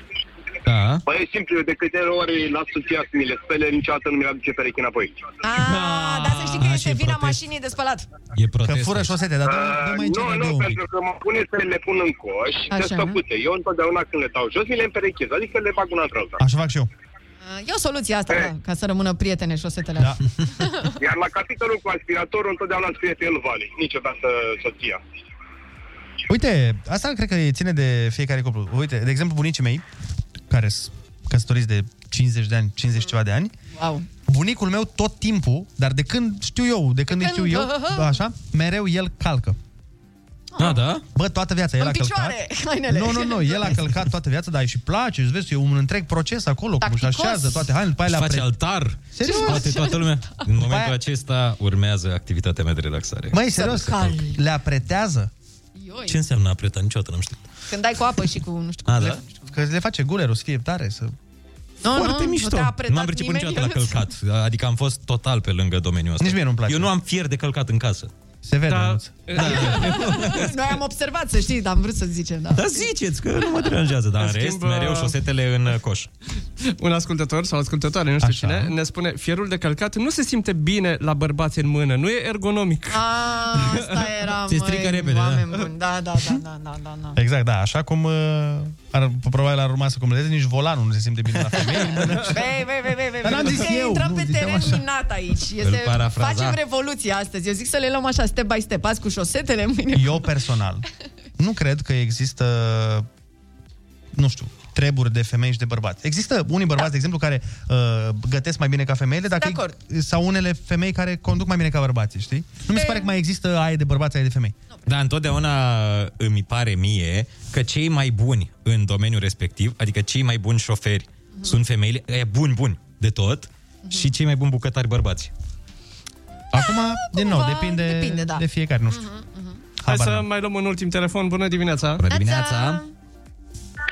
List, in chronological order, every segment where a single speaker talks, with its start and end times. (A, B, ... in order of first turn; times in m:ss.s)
0:00.6-0:01.0 A
0:01.1-0:05.2 B
0:05.4-0:08.1 C
0:05.7-0:07.4 A
0:08.3-0:09.1 A
0:08.6-0:10.8 D
0:09.4-0:16.4 B
0:12.7-0:13.2 C
0:16.4-0:16.9 D
0:17.4-0:21.0 C
0:21.0-0:25.0 B
0:26.3-0:29.8 D
0:30.5-0:33.5 D
0:33.8-0:34.0 C
0:34.2-0:39.6 D
0:37.1-0:38.1 C
0:40.5-0:40.8 C
0:40.6-0:41.0 A
0:41.1-0:48.5 D
0:41.8-0:43.8 C
0:46.8-0:47.6 C
0:48.1-0:53.4 A
0:49.1-0:49.8 D
0:49.2-0:50.3 C
0:50.6-0:50.9 D
0:53.3-0:55.3 D
0:53.5-0:54.4 C
0:55.8-0:56.2 C
0:56.1-0:57.4 A
0:57.7-0:59.5 C
0:58.8-0:59.2 A
0:59.5-1:01.1 D
1:01.8-1:04.0 C
1:01.9-1:08.1 A
1:06.2-1:06.9 D
1:08.4-1:09.6 D
1:08.7-1:10.5 E
1:09.3-1:10.3 A
1:09.4-1:12.8 C
1:12.5-1:16.1 A
1:14.2-1:15.1 E
1:16.6-1:23.0 E
1:18.2-1:18.7 D
1:22.9-1:27.2 C
1:23.5-1:24.0 E
1:24.5-1:25.5 A
1:27.2-1:32.5 D
1:32.3-1:40.2 C
1:33.2-1:34.8 D
1:35.6-1:36.6 A
1:39.9-1:40.8 D
1:41.4-1:43.1 D
1:44.1-1:54.5 D
1:49.4-1:49.7 C
1:52.7-1:53.1 C
1:54.8-2:05.3 A
2:06.5-2:09.0 D
2:07.1-2:09.6 C
2:09.8-2:10.2 D
2:09.9-2:12.0 E
2:12.0-2:12.8 A
2:12.1-2:12.9 C